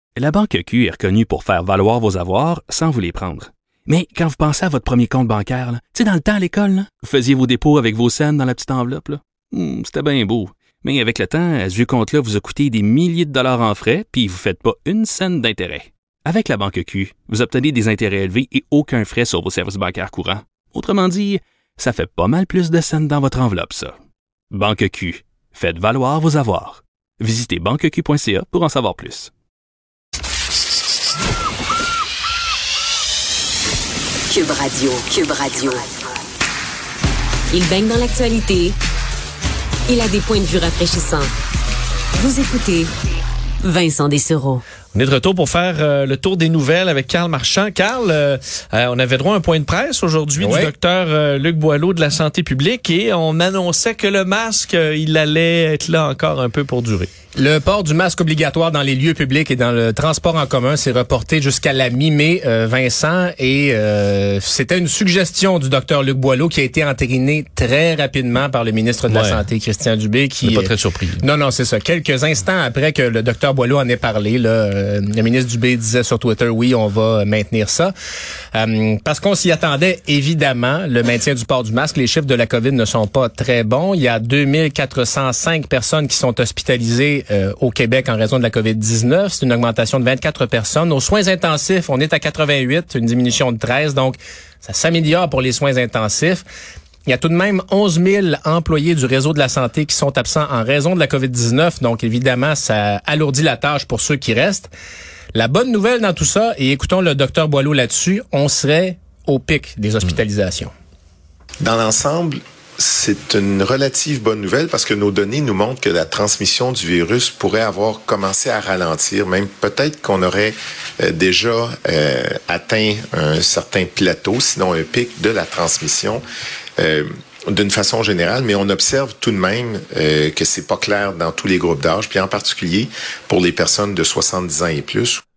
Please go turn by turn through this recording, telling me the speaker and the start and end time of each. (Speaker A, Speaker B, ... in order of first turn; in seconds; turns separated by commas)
Speaker A: 0.1-24.0, Speaker A: 24.5-29.3, Speaker B: 34.3-35.9, Speaker B: 37.5-38.8, Speaker B: 39.9-41.3, Speaker B: 42.2-42.9, Speaker B: 43.6-44.6, Speaker C: 44.9-57.1, Speaker D: 50.4-50.7, Speaker D: 57.4-77.9, Speaker C: 69.1-69.4, Speaker C: 70.4-71.2, Speaker D: 78.5-96.4, Speaker D: 97.1-104.7, Speaker D: 105.3-110.7, Speaker E: 111.6-126.2, Speaker E: 126.8-135.2